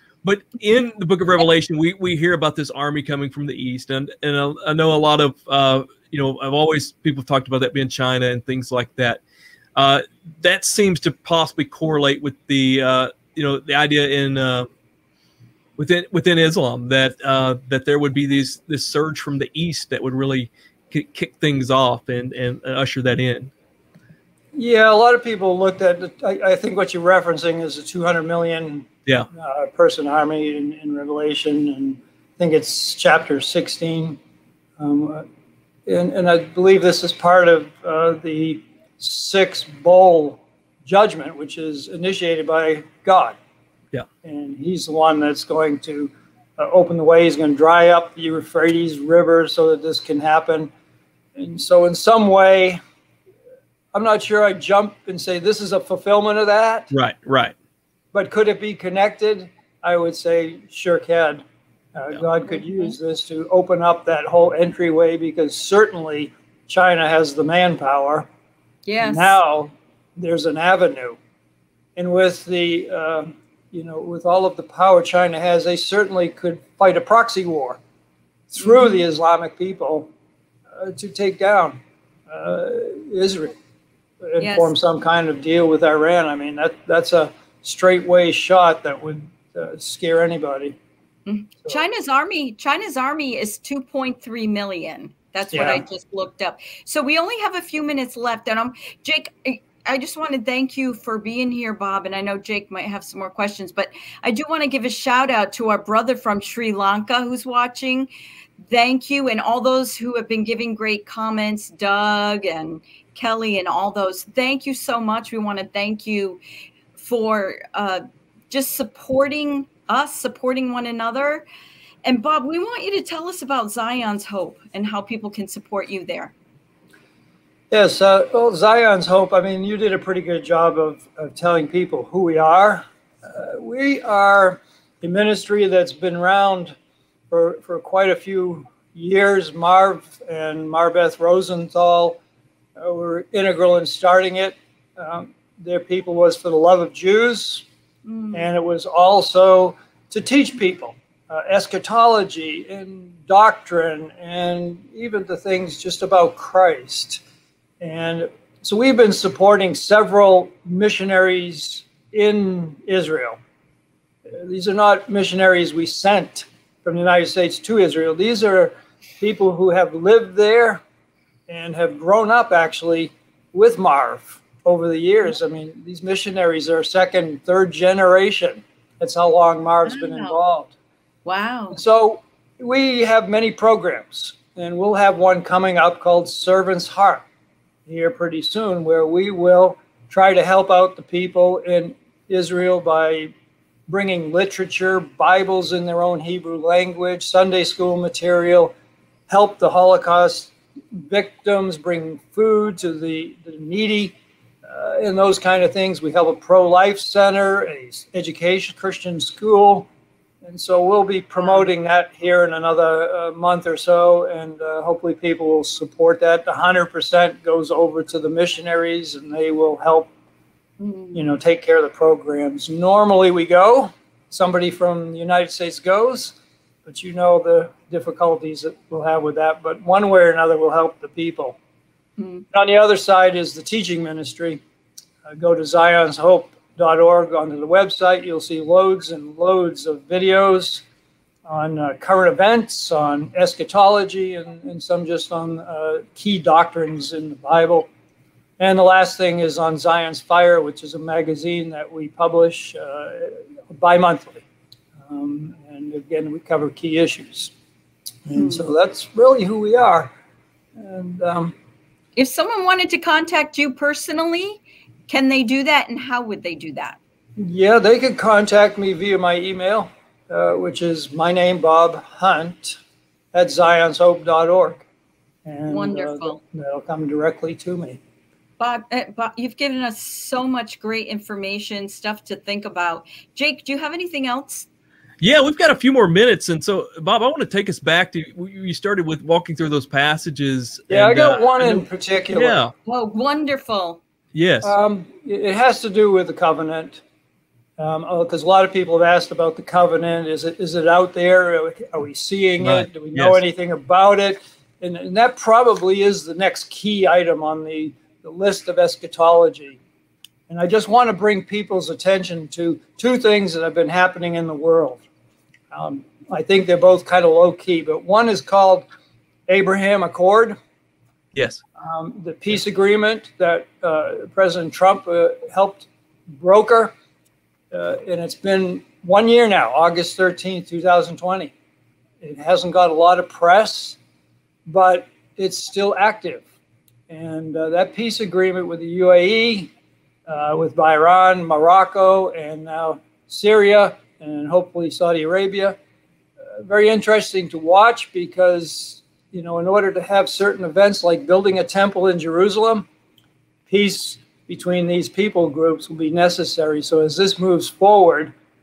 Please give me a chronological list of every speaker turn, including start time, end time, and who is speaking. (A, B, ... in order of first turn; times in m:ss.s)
0:00.2-0:09.2 A
0:09.8-0:14.7 A
0:15.8-0:23.5 A
0:24.5-0:34.2 B
0:34.8-0:35.2 B
0:35.9-0:43.4 B
0:44.2-0:50.7 B
0:51.4-0:52.8 B
0:53.9-0:56.9 B
0:56.9-0:57.5 A
0:58.1-1:01.4 B
1:01.9-1:08.3 B
1:02.5-1:02.9 C
1:08.9-1:09.4 C
1:09.0-1:11.2 B
1:12.0-1:17.8 B
1:18.5-1:20.1 B
1:18.6-1:19.0 C
1:20.7-1:23.6 B
1:24.2-1:30.8 B
1:24.4-1:24.7 C
1:31.2-1:48.1 C
1:35.5-1:35.8 B
1:48.7-1:56.4 C
1:57.0-2:01.4 C
2:02.0-2:06.3 C
2:07.7-2:16.8 B
2:17.3-2:22.2 B
2:22.8-2:27.6 B
2:28.0-2:28.5 C
2:28.3-2:37.2 B
2:37.8-2:43.4 B
2:44.3-2:50.8 B
2:51.5-3:00.7 B
2:59.8-3:00.4 C
3:01.2-3:01.8 C
3:01.7-3:07.2 B
3:07.9-3:13.3 B
3:13.9-3:18.7 B
3:19.3-3:29.9 B
3:30.4-3:40.1 B
3:31.4-3:31.7 C
3:40.8-3:41.3 C
3:41.1-3:51.6 B
3:52.2-3:52.5 C
3:52.5-3:54.6 B
3:55.2-4:00.8 B
4:01.4-4:07.9 B
4:08.6-4:14.4 B
4:15.0-4:17.5 B
4:18.3-4:20.1 B
4:18.3-4:18.7 C
4:20.8-4:21.5 B
4:22.2-4:27.0 C
4:27.4-4:32.8 B
4:33.3-4:34.9 B
4:35.4-4:38.0 B
4:35.7-4:36.4 C
4:38.6-4:44.7 C
4:45.2-4:52.7 A
4:50.9-4:52.6 B
4:52.8-4:54.0 C
4:54.3-4:54.7 A
4:54.6-4:57.0 B
4:57.8-5:09.8 B
5:02.6-5:03.4 A
5:10.5-5:15.0 B
5:15.7-5:18.9 B
5:19.5-5:20.6 B
5:21.4-5:21.6 A
5:21.8-5:26.9 B
5:27.7-5:31.5 B
5:32.2-5:34.0 B
5:34.6-5:36.4 B
5:37.1-5:39.7 B
5:40.3-5:45.8 B
5:46.4-5:52.9 B
5:53.7-5:58.3 B